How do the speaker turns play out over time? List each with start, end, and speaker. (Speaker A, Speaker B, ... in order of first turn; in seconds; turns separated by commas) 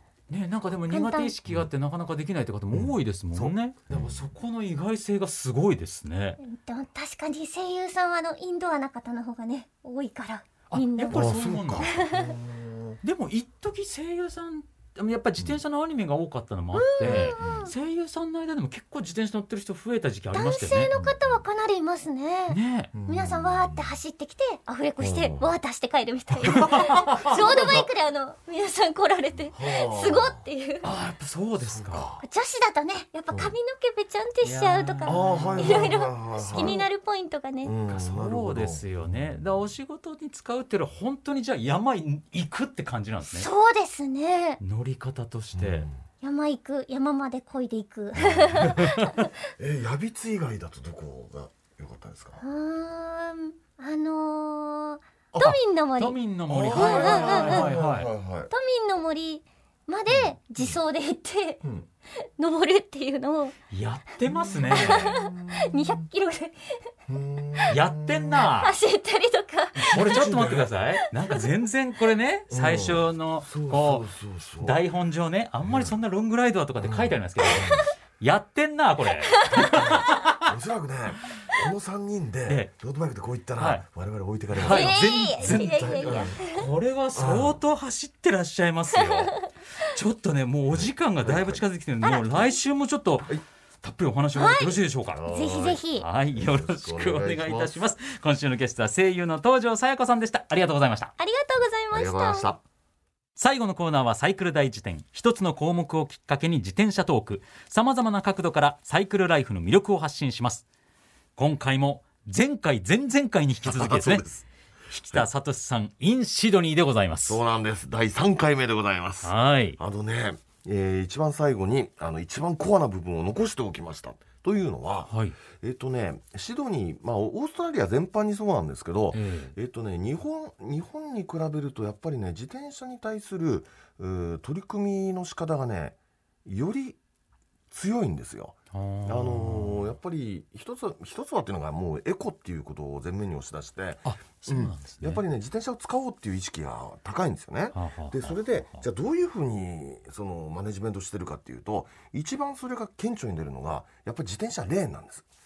Speaker A: 0.3-6.4, Speaker B: 0.9-1.3, Speaker C: 2.7-4.3, Speaker B: 6.4-12.3, Speaker A: 10.7-11.9, Speaker C: 11.1-13.0, Speaker A: 13.0-20.9, Speaker B: 16.7-17.7, Speaker C: 17.0-17.7, Speaker B: 20.3-30.9, Speaker C: 20.9-21.3, Speaker A: 22.5-22.9, Speaker C: 22.9-23.9, Speaker C: 25.0-25.5, Speaker C: 26.3-27.9, Speaker A: 26.4-27.3, Speaker C: 29.5-30.4, Speaker A: 30.8-32.1, Speaker C: 31.6-32.2, Speaker B: 32.2-37.7, Speaker A: 34.4-36.8, Speaker C: 35.0-36.8, Speaker C: 37.6-39.4, Speaker A: 37.9-43.5, Speaker B: 43.2-44.6, Speaker A: 44.6-45.9, Speaker C: 45.5-46.0, Speaker B: 46.2-49.3, Speaker C: 48.2-48.9, Speaker A: 48.6-49.2, Speaker C: 49.6-52.4, Speaker B: 52.4-56.2, Speaker C: 55.3-55.6, Speaker A: 55.5-58.1, Speaker C: 56.5-58.5, Speaker B: 56.7-57.6, Speaker B: 58.5-61.6, Speaker C: 60.1-60.8, Speaker B: 62.2-63.5, Speaker A: 63.7-65.2, Speaker C: 64.3-66.0, Speaker B: 64.7-66.8, Speaker C: 67.1-68.5, Speaker A: 67.7-68.8, Speaker B: 68.3-70.0, Speaker A: 69.8-74.1, Speaker C: 69.9-70.7, Speaker B: 71.0-71.4, Speaker C: 72.5-74.8, Speaker A: 74.6-80.5, Speaker C: 75.6-75.9, Speaker C: 76.8-77.9, Speaker C: 79.5-86.6, Speaker A: 83.6-83.8, Speaker A: 84.5-95.3, Speaker B: 84.7-86.7, Speaker C: 87.1-87.6, Speaker C: 90.7-91.6, Speaker B: 92.0-92.5, Speaker B: 94.3-96.0, Speaker C: 95.1-95.8, Speaker A: 95.9-101.1, Speaker C: 96.3-97.8, Speaker B: 101.2-102.5, Speaker C: 101.9-102.6, Speaker A: 103.4-110.6, Speaker A: 111.4-114.3, Speaker C: 113.6-114.5, Speaker A: 114.9-117.4, Speaker C: 117.3-137.0, Speaker A: 119.2-119.8, Speaker A: 125.1-125.3, Speaker A: 129.1-129.5, Speaker C: 137.7-155.2, Speaker A: 138.7-139.9, Speaker A: 144.0-145.2, Speaker A: 147.7-148.8